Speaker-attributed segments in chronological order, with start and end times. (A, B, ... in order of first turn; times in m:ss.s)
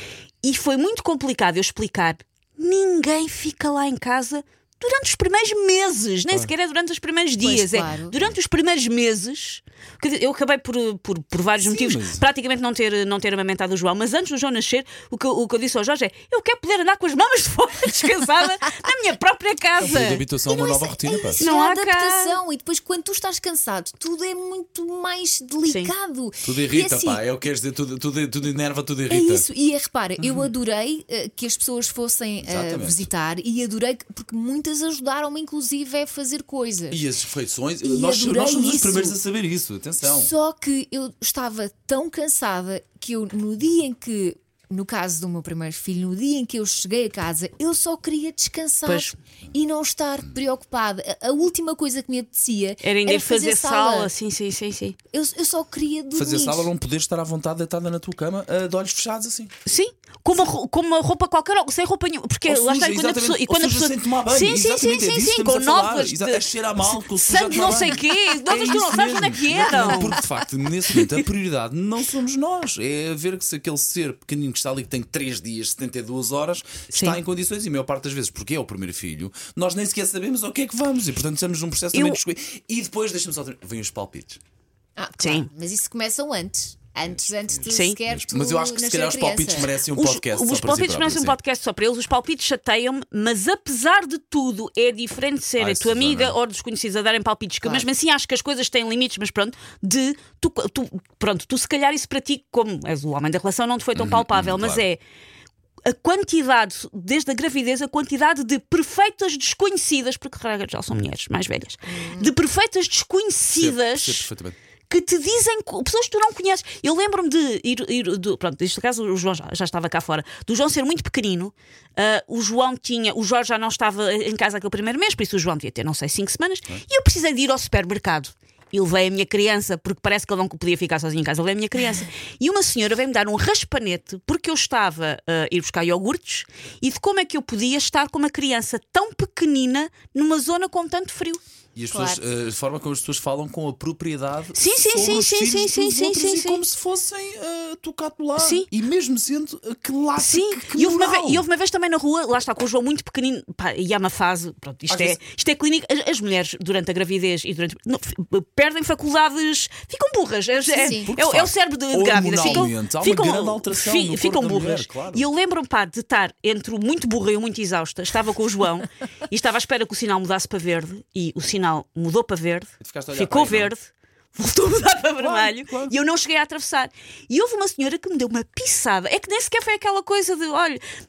0:00.4-0:20.2 A
0:07.4-0:08.2 B
0:11.6-0:12.3 C
0:19.8-0:21.4 C
0:20.4-0:27.2 B
0:21.4-0:22.4 A
0:25.6-0:25.9 A
0:26.4-0:29.5 C
0:29.1-0:37.0 B
0:30.2-0:30.5 C
0:32.4-0:33.1 C
0:36.9-0:40.3 C
0:37.8-0:39.2 B
0:40.0-0:54.1 B
0:48.8-0:49.2 A
0:52.8-0:55.0 A
0:55.1-0:56.7 B
0:56.1-0:59.5 C
0:59.6-1:10.2 A
1:02.4-1:24.4 C
1:10.9-1:11.2 A
1:16.9-1:17.2 A
1:21.9-1:22.2 A
1:25.0-1:29.7 B
1:25.2-1:25.5 A
1:27.2-1:31.4 C
1:27.7-1:28.0 A
1:29.8-1:45.0 A
1:35.6-1:36.4 C
1:37.6-1:37.9 B
1:43.9-1:44.8 C
1:45.8-1:54.3 A
1:51.8-1:52.3 B
1:53.5-1:54.6 C
1:54.9-2:21.4 A
2:21.7-2:31.4 C
2:21.9-2:22.2 B
2:24.5-2:26.6 A
2:28.4-2:28.7 A
2:30.2-3:00.8 A
2:34.9-2:35.2 C
2:40.7-2:41.1 B
2:40.8-2:45.2 C
2:42.3-2:42.7 B
2:52.8-2:53.7 C
2:55.2-2:55.9 C